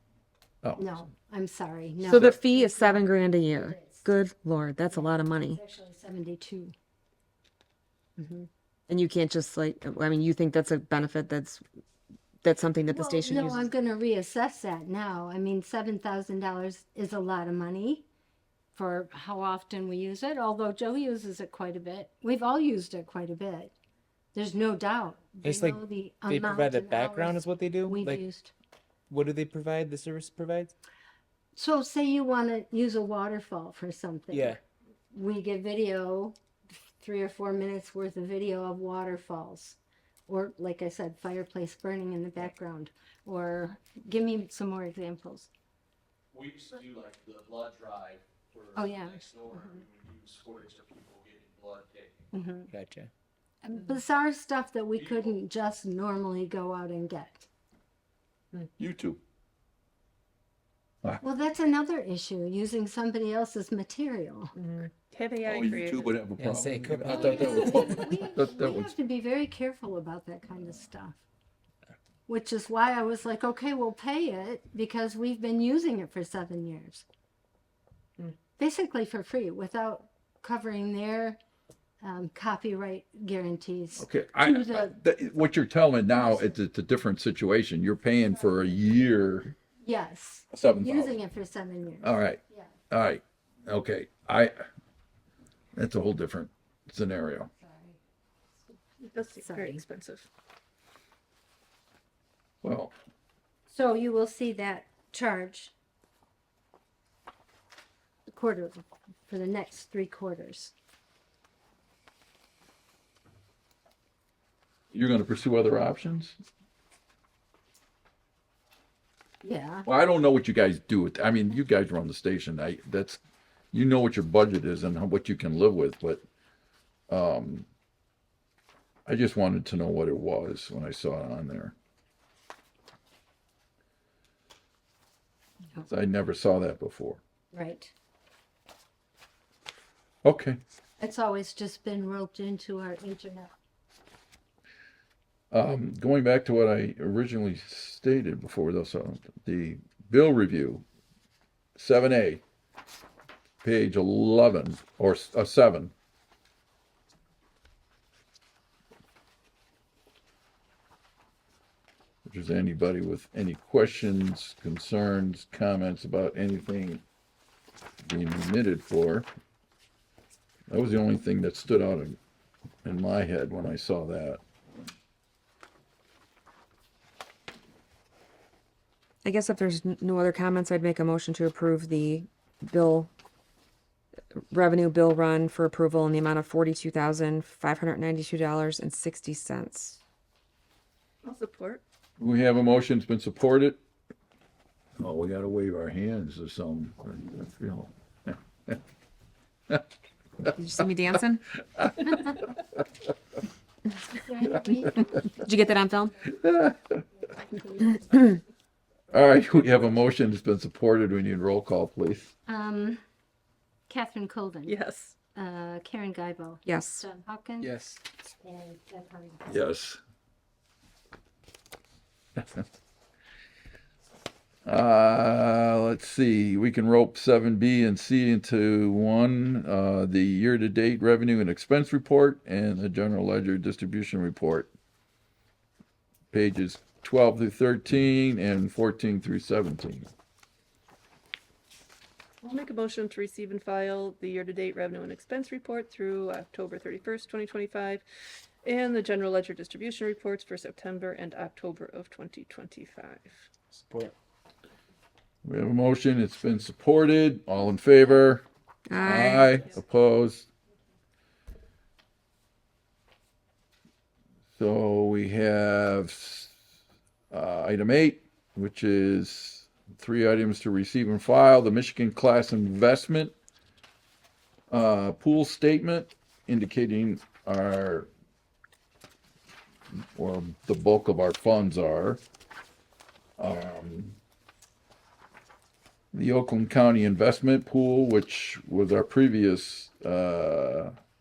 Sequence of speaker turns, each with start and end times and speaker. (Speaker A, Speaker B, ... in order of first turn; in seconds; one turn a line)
Speaker A: 0.6-0.9
Speaker B: 0.8-4.0
Speaker C: 2.1-5.6
Speaker B: 4.9-6.7
Speaker B: 8.2-8.5
Speaker C: 8.9-11.6
Speaker C: 12.4-13.7
Speaker B: 12.9-18.1
Speaker B: 18.7-23.7
Speaker B: 24.3-28.5
Speaker D: 25.4-28.2
Speaker D: 29.1-30.7
Speaker B: 31.6-34.6
Speaker D: 34.3-34.6
Speaker B: 35.1-36.4
Speaker B: 37.0-45.5
Speaker E: 46.3-52.2
Speaker B: 48.8-49.2
Speaker B: 52.3-52.7
Speaker D: 52.7-53.1
Speaker B: 53.6-57.5
Speaker E: 55.0-55.3
Speaker A: 58.8-59.2
Speaker B: 61.2-64.5
Speaker F: 65.1-66.2
Speaker A: 65.5-68.9
Speaker D: 66.4-67.9
Speaker B: 67.0-71.2
Speaker B: 72.3-77.0
Speaker B: 78.6-81.4
Speaker B: 82.0-84.9
Speaker A: 84.0-89.5
Speaker B: 89.8-92.7
Speaker A: 90.5-91.2
Speaker A: 92.0-94.6
Speaker A: 95.8-97.5
Speaker B: 97.6-98.0
Speaker F: 99.1-100.3
Speaker B: 99.3-99.8
Speaker A: 102.6-103.0
Speaker B: 103.7-105.7
Speaker B: 108.3-110.7
Speaker A: 114.9-116.4
Speaker B: 119.4-119.9
Speaker A: 119.8-123.2
Speaker A: 123.7-126.2
Speaker A: 127.1-127.7
Speaker A: 129.1-131.8
Speaker A: 135.9-137.2
Speaker B: 137.5-137.9
Speaker A: 140.2-140.6
Speaker B: 141.0-143.5
Speaker A: 145.5-150.8
Speaker A: 151.8-152.4
Speaker A: 153.6-155.9
Speaker A: 162.2-167.0
Speaker A: 168.0-169.3
Speaker A: 170.7-172.2
Speaker A: 172.8-174.4
Speaker C: 179.2-183.1
Speaker C: 184.4-190.0
Speaker F: 191.2-191.8
Speaker A: 192.2-193.8
Speaker A: 195.0-198.8
Speaker C: 200.5-201.4
Speaker A: 201.8-202.3
Speaker B: 204.1-205.2
Speaker C: 205.4-206.2
Speaker A: 206.2-207.0
Speaker B: 207.4-208.0
Speaker A: 209.1-212.3
Speaker B: 212.5-213.0
Speaker B: 213.9-214.8
Speaker F: 214.7-215.2
Speaker B: 215.3-217.8
Speaker C: 216.7-217.0
Speaker D: 217.6-218.0
Speaker B: 218.4-219.6
Speaker A: 219.5-220.0
Speaker A: 224.7-234.7
Speaker A: 236.3-240.1
Speaker F: 242.4-248.0
Speaker F: 248.6-253.5
Speaker D: 253.8-254.1
Speaker A: 255.4-258.4
Speaker C: 258.9-259.5
Speaker A: 259.0-260.5
Speaker F: 259.1-259.6
Speaker A: 264.6-266.5
Speaker A: 267.3-273.3
Speaker A: 274.7-278.1
Speaker A: 280.0-282.2
Speaker A: 283.4-284.2
Speaker A: 286.1-290.9